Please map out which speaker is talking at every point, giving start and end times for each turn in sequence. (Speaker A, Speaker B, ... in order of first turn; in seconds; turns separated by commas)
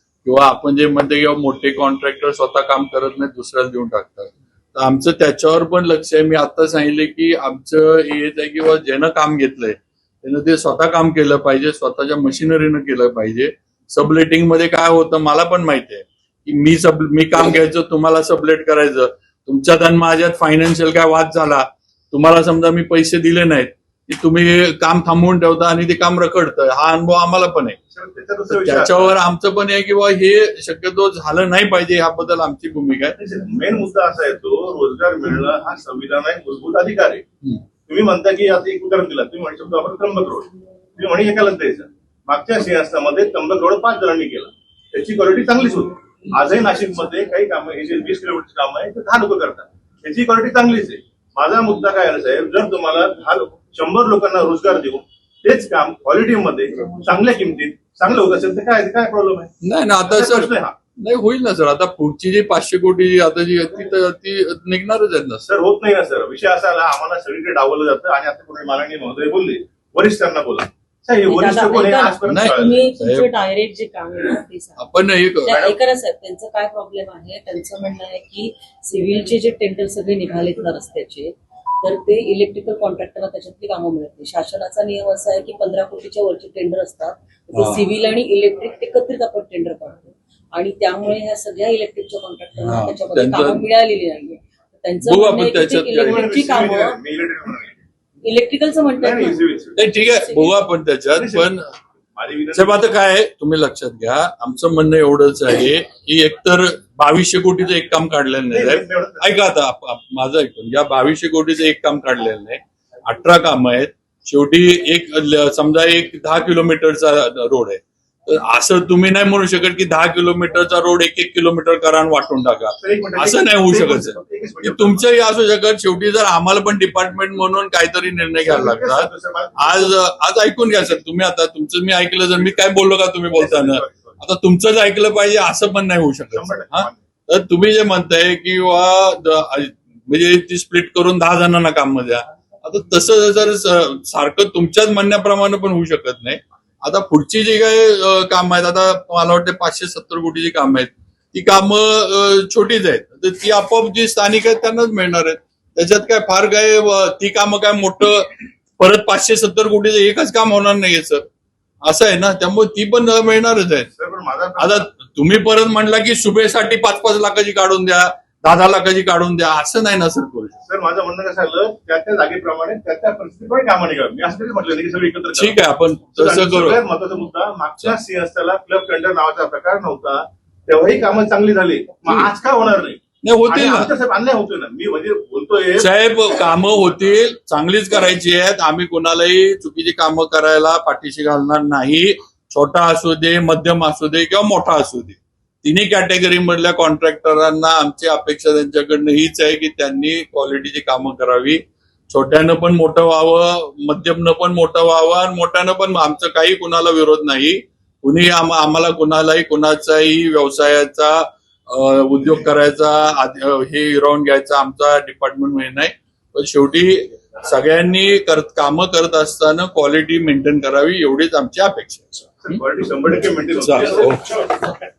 Speaker A: 0.2-27.8, Speaker B: 27.9-29.2, Speaker A: 28.5-33.2, Speaker B: 33.2-37.2, Speaker B: 37.9-59.5, Speaker A: 59.6-65.5, Speaker B: 60.0-60.8, Speaker B: 65.5-72.8, Speaker C: 71.3-74.9, Speaker A: 72.3-73.3, Speaker A: 74.8-75.6, Speaker C: 75.4-81.3, Speaker B: 75.5-75.8, Speaker C: 81.8-97.0, Speaker A: 87.5-87.8, Speaker A: 92.6-93.6, Speaker A: 95.0-96.3, Speaker B: 96.0-97.8, Speaker C: 98.2-99.4, Speaker B: 99.0-99.9, Speaker A: 99.8-101.7, Speaker C: 100.0-100.6, Speaker B: 101.1-101.5, Speaker B: 102.2-102.9, Speaker A: 102.5-161.3, Speaker B: 108.5-109.4, Speaker B: 122.8-125.1, Speaker B: 128.4-130.0, Speaker B: 133.3-134.2, Speaker B: 136.3-137.0, Speaker A: 161.8-163.9, Speaker B: 163.9-164.9, Speaker A: 164.6-170.6, Speaker B: 170.7-175.6, Speaker A: 175.3-176.8, Speaker B: 176.1-185.9, Speaker A: 183.2-183.9, Speaker A: 185.8-222.6, Speaker B: 222.4-224.4, Speaker A: 223.6-224.6